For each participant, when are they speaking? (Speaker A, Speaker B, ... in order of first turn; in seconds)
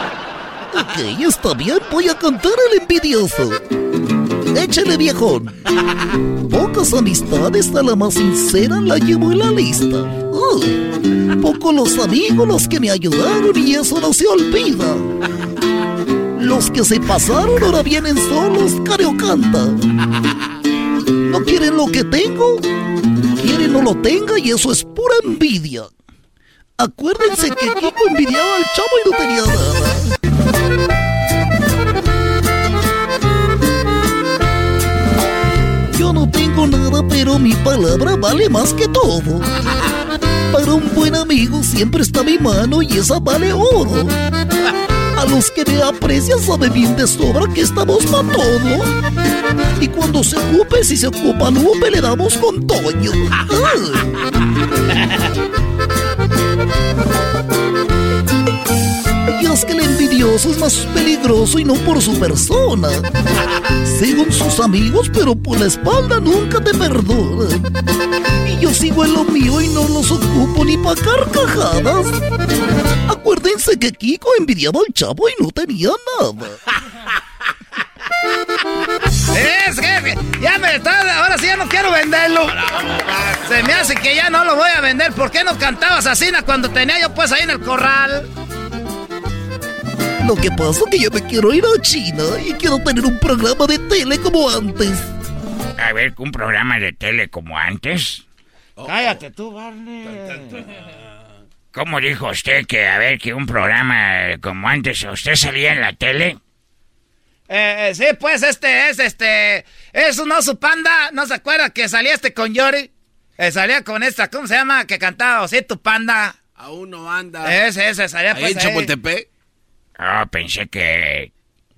Speaker A: 0.7-3.6, 4.5-5.5, 6.5-10.8, 11.3-15.1, 16.4-19.8, 21.2-22.7, 23.4-25.9, 26.8-30.1, 35.9-39.5, 40.5-44.1, 45.2-48.9, 49.8-54.1, 59.3-63.1, 63.8-67.7, 68.4-72.2, 73.1-76.6, 90.2-95.1
Speaker B: 79.3-80.6, 83.5-88.3, 98.9-100.5, 107.5-116.3, 117.4-118.9
Speaker C: 82.5-83.9, 98.8-99.2, 100.1-100.4, 116.6-117.6, 118.3-119.3
Speaker D: 95.8-98.2, 101.7-106.4, 120.0-121.3